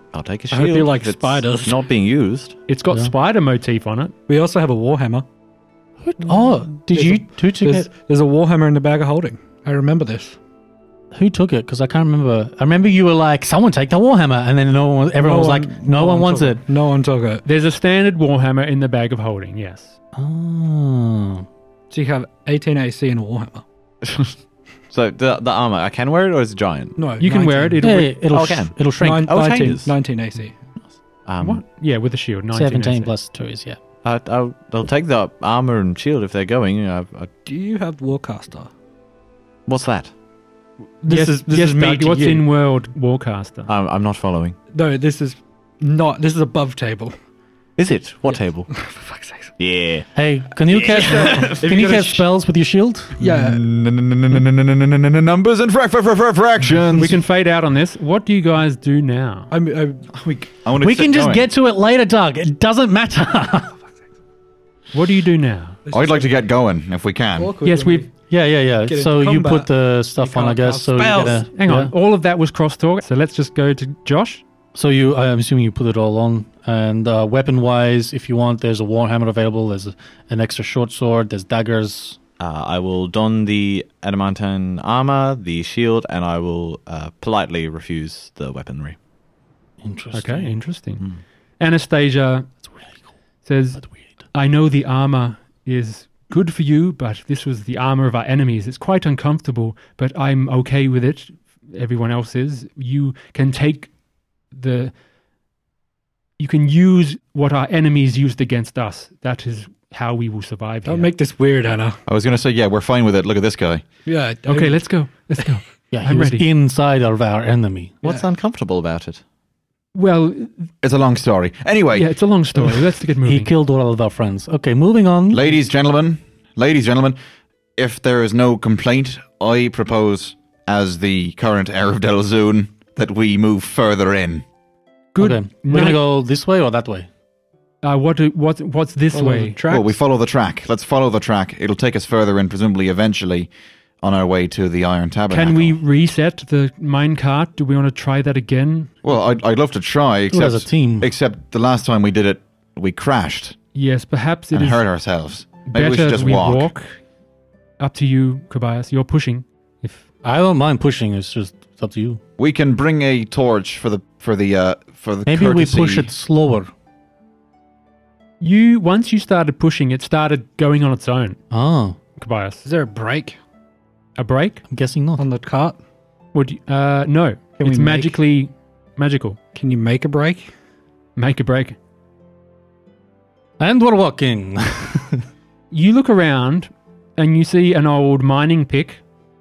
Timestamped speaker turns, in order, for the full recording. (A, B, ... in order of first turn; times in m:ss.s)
0:00.1-0:02.5 A
0:00.5-0:01.8 B
0:02.7-0:04.1 C
0:04.3-0:05.2 B
0:06.0-0:07.9 D
0:06.9-0:10.4 B
0:11.1-0:16.6 D
0:15.2-0:17.4 B
0:17.4-0:19.9 C
0:20.1-0:21.4 D
0:21.9-0:23.6 B
0:24.0-0:24.3 A
0:24.9-0:27.0 A
0:27.0-0:27.8 B
0:27.2-0:28.2 C
0:27.8-0:29.4 D
0:28.3-0:29.9 A
0:29.0-0:30.6 B
0:30.8-0:31.6 A
0:31.4-0:33.1 C
0:32.5-0:33.8 D
0:34.0-0:37.3 A
0:37.4-0:38.7 B
0:39.7-0:40.1 A
0:41.0-0:42.4 B
0:41.1-0:43.7 C
0:43.7-0:44.6 A
0:44.7-0:47.1 B
0:47.8-0:48.7 A
0:48.3-0:49.5 B
0:49.6-0:50.1 A
0:50.1-0:53.1 D
0:50.7-0:52.2 B
0:51.2-0:51.5 A
0:53.2-0:53.6 B
0:53.2-0:57.2 E
0:56.9-0:59.5 C
0:59.5-1:00.0 B
1:00.1-1:01.4 E
1:00.8-1:03.8 D
1:04.9-1:05.8 C
1:05.9-1:06.3 B
1:05.9-1:07.5 E
1:07.4-1:08.1 B
1:07.6-1:08.0 C
1:08.3-1:11.9 D
1:08.8-1:11.5 B
1:11.5-1:14.4 C
1:14.7-1:22.2 D
1:22.4-1:29.0 A
1:29.8-1:30.5 D
1:30.1-1:31.0 C
1:31.6-1:32.5 C
1:32.7-1:32.9 D
1:33.4-1:33.8 C
1:34.3-1:43.9 C
1:44.5-1:44.9 C
1:46.4-1:51.1 C
1:50.8-1:52.0 B
1:52.0-1:53.8 E
1:54.0-1:54.8 B
1:54.5-1:56.4 C
1:55.9-1:57.9 D
1:58.0-1:59.2 A
1:59.9-2:00.7 C
2:00.8-2:02.1 E
2:01.9-2:03.5 C
2:03.2-2:05.4 D
2:05.3-2:07.2 E
2:07.8-2:14.4 E
2:15.1-2:16.0 C
2:15.2-2:17.1 D
2:17.8-2:19.6 C
2:19.1-2:20.0 B
2:19.7-2:23.5 E
2:24.0-2:25.7 E
2:25.3-2:28.9 C
2:29.0-2:33.6 E
2:30.3-2:31.1 D
2:33.7-2:34.8 C
2:34.5-2:36.7 E
2:35.6-2:37.0 C
2:37.8-2:40.0 C
2:40.2-2:42.2 D
2:42.4-2:46.1 E
2:45.2-2:46.7 D
2:48.4-2:51.4 C
2:51.5-2:52.0 D
2:52.2-2:52.6 C
2:52.6-2:53.4 B
2:54.2-2:54.6 C
2:54.7-2:55.2 D
2:55.2-2:55.8 B
2:56.3-2:59.4 C
2:57.6-2:58.2 B
2:59.5-3:00.5 B
3:01.2-3:01.8 C
3:03.6-3:05.2 D
3:05.7-3:09.0 C